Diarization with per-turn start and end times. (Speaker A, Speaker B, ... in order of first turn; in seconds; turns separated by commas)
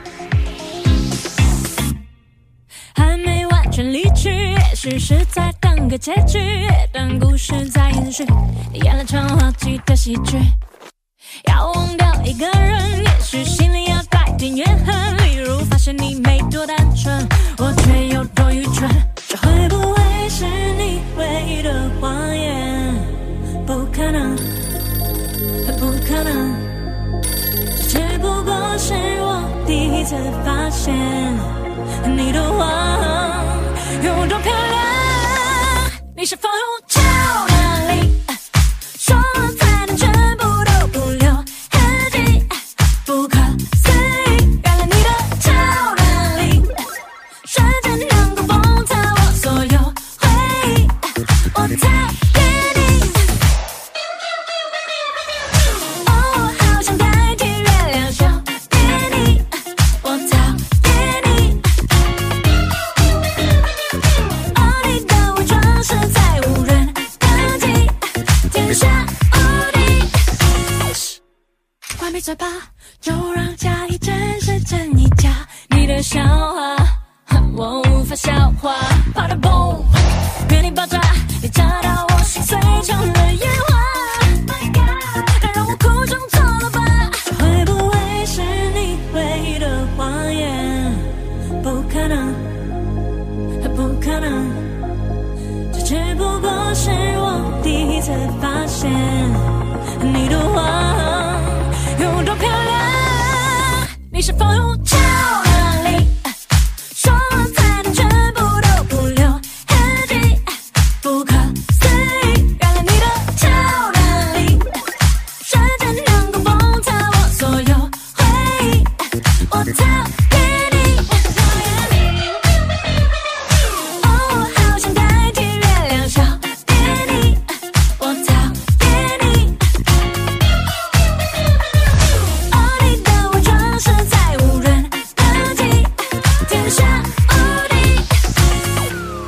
Speaker A: 2.9-10.5, Speaker A: 11.4-24.5, Speaker A: 25.6-26.8, Speaker A: 27.7-38.4, Speaker A: 38.9-46.7, Speaker A: 47.4-53.3, Speaker A: 56.0-61.7, Speaker A: 64.5-70.3, Speaker A: 72.0-92.5, Speaker A: 93.6-94.8, Speaker A: 95.7-106.4, Speaker A: 106.9-114.7, Speaker A: 115.4-122.5, Speaker A: 123.7-129.7, Speaker A: 132.5-138.1